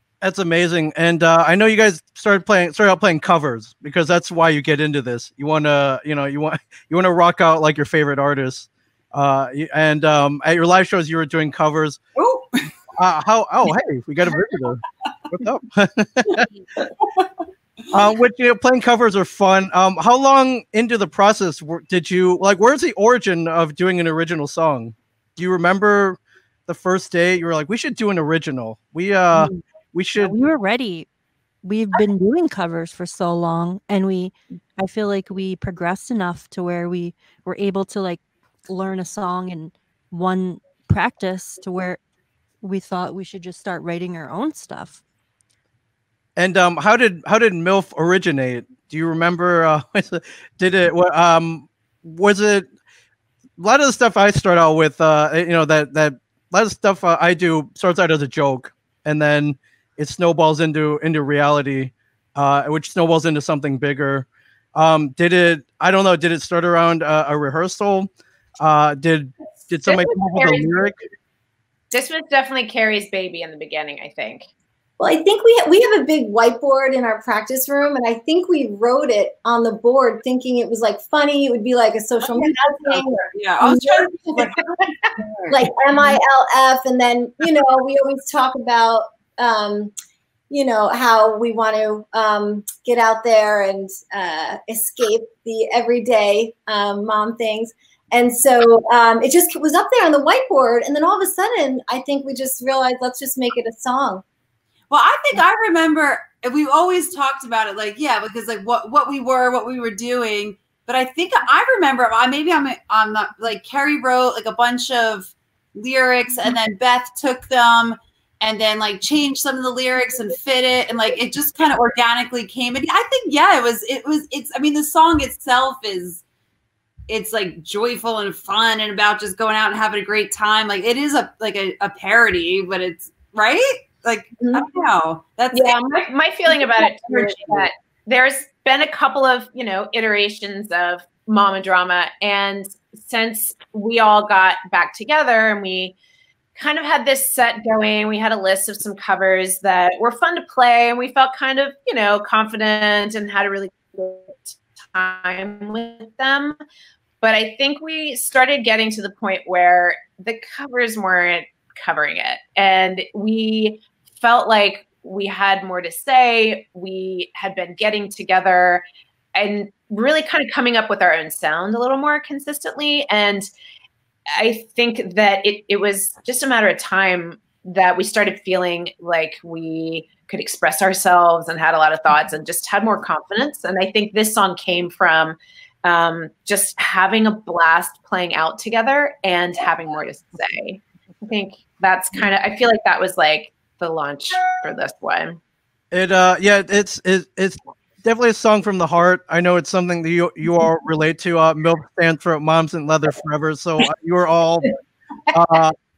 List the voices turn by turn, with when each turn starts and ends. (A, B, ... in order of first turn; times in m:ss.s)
0:00.2-0:12.0 A
0:12.2-0:12.7 B
0:13.0-0:16.5 A
0:17.0-0:17.4 B
0:17.9-0:30.3 A
0:30.2-0:31.1 C
0:31.6-0:42.0 C
0:42.6-0:45.0 C
0:46.4-0:52.7 A
0:53.6-1:11.0 A
1:09.9-1:10.9 D
1:11.9-1:14.5 D
1:15.0-1:24.4 E
1:22.2-1:25.7 B
1:24.8-1:25.1 D
1:25.5-1:29.9 E
1:30.5-1:44.2 E
1:44.9-2:06.2 B
2:07.1-2:15.8 B
2:14.4-2:14.7 E
2:15.5-2:26.0 D
2:16.6-2:17.7 B
2:26.6-2:36.6 D
2:37.2-2:48.8 D
2:49.3-2:53.5 D
2:54.3-3:15.4 D
3:15.9-3:24.8 A
3:25.3-3:25.7 A